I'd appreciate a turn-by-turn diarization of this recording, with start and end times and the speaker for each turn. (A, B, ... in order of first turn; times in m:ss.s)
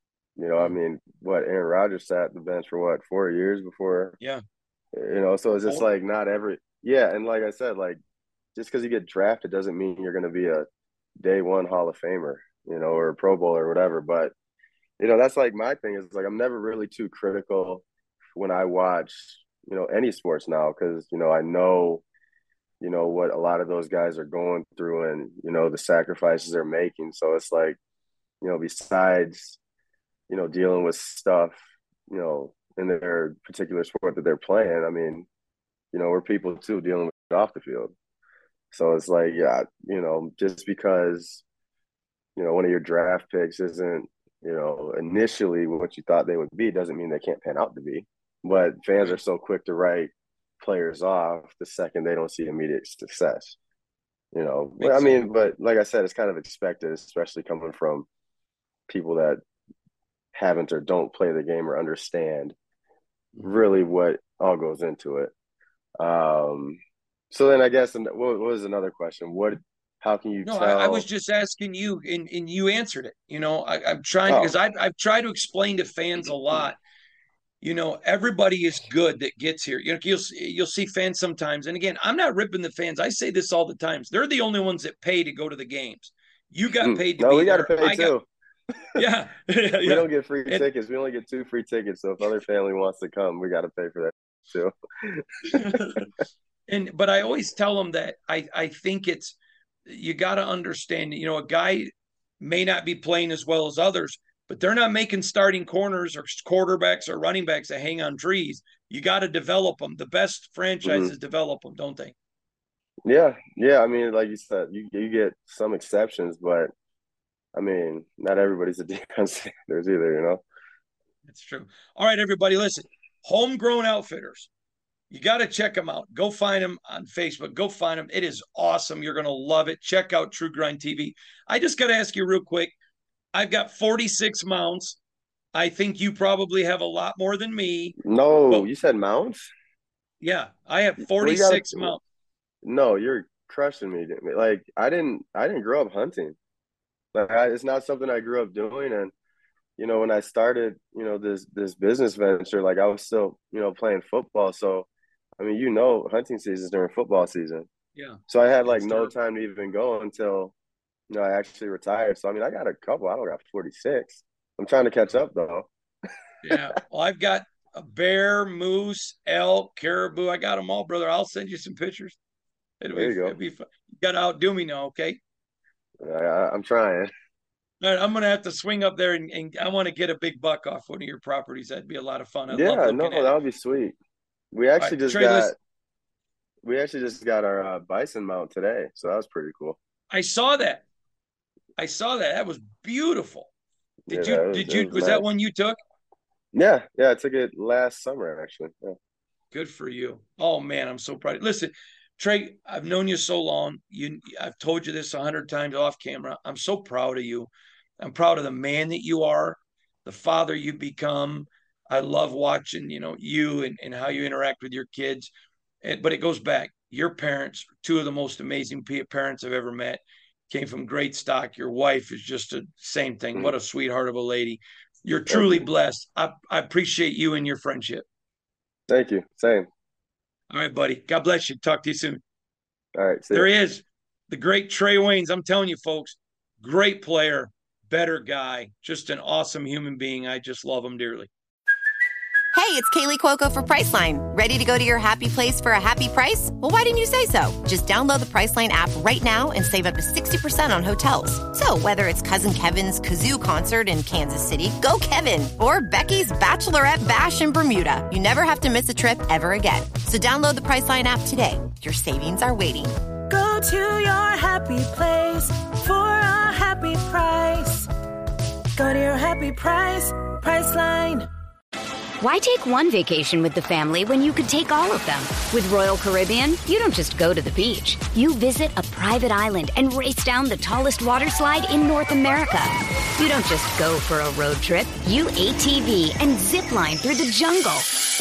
0:00.4-0:04.2 A
0:04.9-0:08.0 A
0:08.5-0:10.6 A
0:11.2-0:14.3 A
0:15.0-0:22.0 A
0:22.8-0:27.8 A
0:28.4-0:29.6 A
0:30.3-0:35.3 A
0:35.9-0:37.9 A
0:38.7-0:41.4 A
0:42.4-0:53.5 A
0:54.3-0:58.1 A
0:54.8-0:55.2 B
0:58.9-0:59.4 A
1:00.3-1:02.5 A
1:03.4-1:05.3 A
1:06.0-1:06.8 A
1:07.3-1:11.0 A
1:10.4-1:16.8 B
1:14.3-1:14.5 A
1:17.6-1:28.1 B
1:26.8-1:28.2 A
1:29.0-1:30.6 B
1:29.8-1:35.2 A
1:35.8-1:36.0 B
1:36.7-1:39.4 B
1:39.9-1:52.1 B
1:50.8-1:51.1 A
1:53.0-1:56.7 A
1:57.5-2:00.4 A
2:01.3-2:04.5 B
2:05.1-2:12.7 B
2:13.3-2:15.0 B
2:15.5-2:18.0 B
2:18.0-2:19.5 A
2:20.2-2:22.0 B
2:21.0-2:22.0 A
2:22.6-2:26.3 A
2:27.1-2:29.1 A
2:29.8-2:34.9 A
2:35.4-2:37.7 A
2:38.0-2:39.1 B
2:38.3-2:40.5 A
2:41.1-2:45.7 A
2:46.4-2:52.2 B
2:52.8-2:55.2 B
2:52.9-2:53.4 A
2:56.0-2:57.1 A
2:57.8-3:03.3 B
3:02.5-3:03.9 A
3:04.5-3:05.6 A
3:04.8-3:05.5 B
3:06.6-3:09.8 A
3:10.1-3:10.8 B
3:11.8-3:13.5 B
3:14.1-3:15.2 A
3:14.1-3:15.8 B
3:16.5-3:19.0 A
3:19.5-3:35.3 B
3:35.8-3:48.0 B
3:45.3-3:45.7 A
3:48.9-3:49.6 A
3:50.5-3:52.2 B
3:52.9-3:53.5 A
3:53.3-4:01.3 B
4:02.5-4:23.0 C
4:23.3-4:27.8 D
4:28.8-4:31.2 D
4:32.2-4:47.9 E